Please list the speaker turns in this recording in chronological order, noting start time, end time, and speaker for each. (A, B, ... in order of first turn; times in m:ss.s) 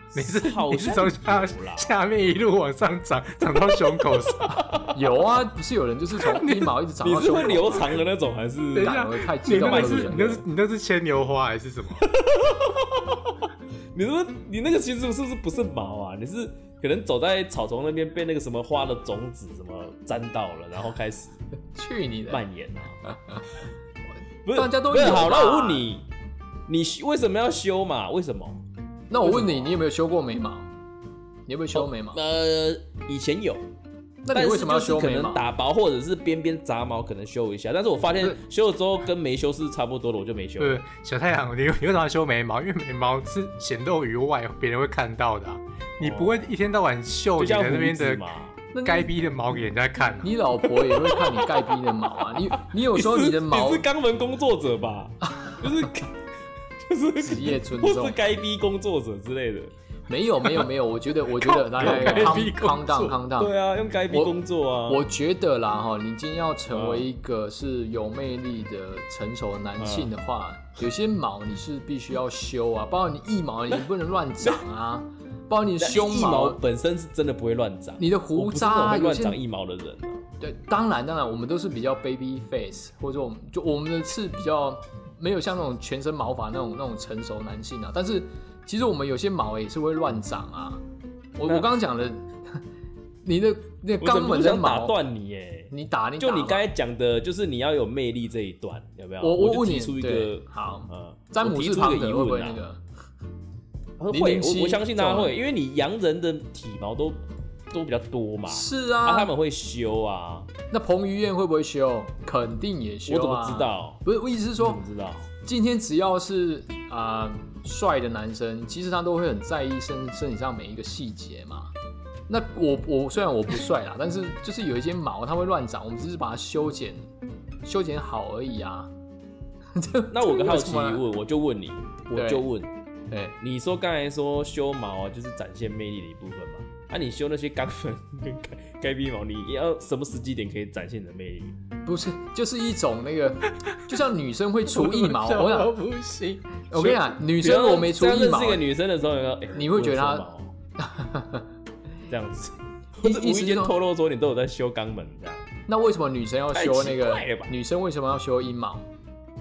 0:00.1-0:02.0 A
0:00.1-0:04.7 B
0:04.5-0:04.9 A
0:04.9-0:08.0 C
0:06.2-0:06.7 B
0:07.0-0:10.4 A
0:08.7-0:10.4 C
0:08.8-0:12.1 B
0:12.0-0:21.3 A
0:21.7-0:22.4 C
0:22.3-0:23.0 A
0:23.1-0:23.4 C
0:24.4-0:26.1 A
0:24.5-0:25.9 C
0:26.7-0:28.6 A
0:29.1-0:30.7 C
0:29.2-0:29.8 A
0:31.5-0:32.2 C
0:31.7-0:33.6 A
0:34.2-0:35.4 C
0:34.3-0:40.8 A
0:40.6-0:48.2 B
0:46.0-0:46.5 A
0:47.4-0:48.6 A
0:48.7-0:49.1 C
0:48.8-0:50.3 B
0:50.2-0:53.8 C
0:50.8-0:51.5 A
0:52.3-0:56.1 A
0:56.8-0:59.7 A
0:57.2-0:58.2 C
1:00.1-1:03.5 C
1:01.4-1:02.5 A
1:01.7-1:03.2 B
1:03.4-1:05.0 A
1:04.1-1:16.6 C
1:06.7-1:07.1 A
1:09.8-1:10.1 A
1:15.8-1:20.2 A
1:18.0-1:19.4 C
1:20.4-1:30.8 C
1:31.4-1:32.6 C
1:33.2-1:35.0 C
1:34.0-1:42.6 A
1:35.7-1:36.6 C
1:39.2-1:42.8 C
1:44.0-1:50.5 A
1:44.1-1:45.3 C
1:48.5-1:49.3 C
1:50.7-1:54.8 C
1:53.1-1:54.0 A
1:54.6-1:55.3 A
1:55.4-2:01.7 C
2:02.3-2:07.1 C
2:07.6-2:08.9 C
2:09.7-2:11.0 C
2:10.1-2:12.7 A
2:12.1-2:12.5 C
2:13.1-2:13.4 C
2:13.4-2:21.6 A
2:21.8-2:25.7 C
2:24.7-2:26.7 B
2:26.7-2:28.6 C
2:26.8-2:30.5 A
2:29.5-2:30.3 C
2:30.8-2:31.4 C
2:32.1-2:35.5 A
2:33.0-2:33.7 C
2:35.7-2:38.9 C
2:36.5-2:37.5 A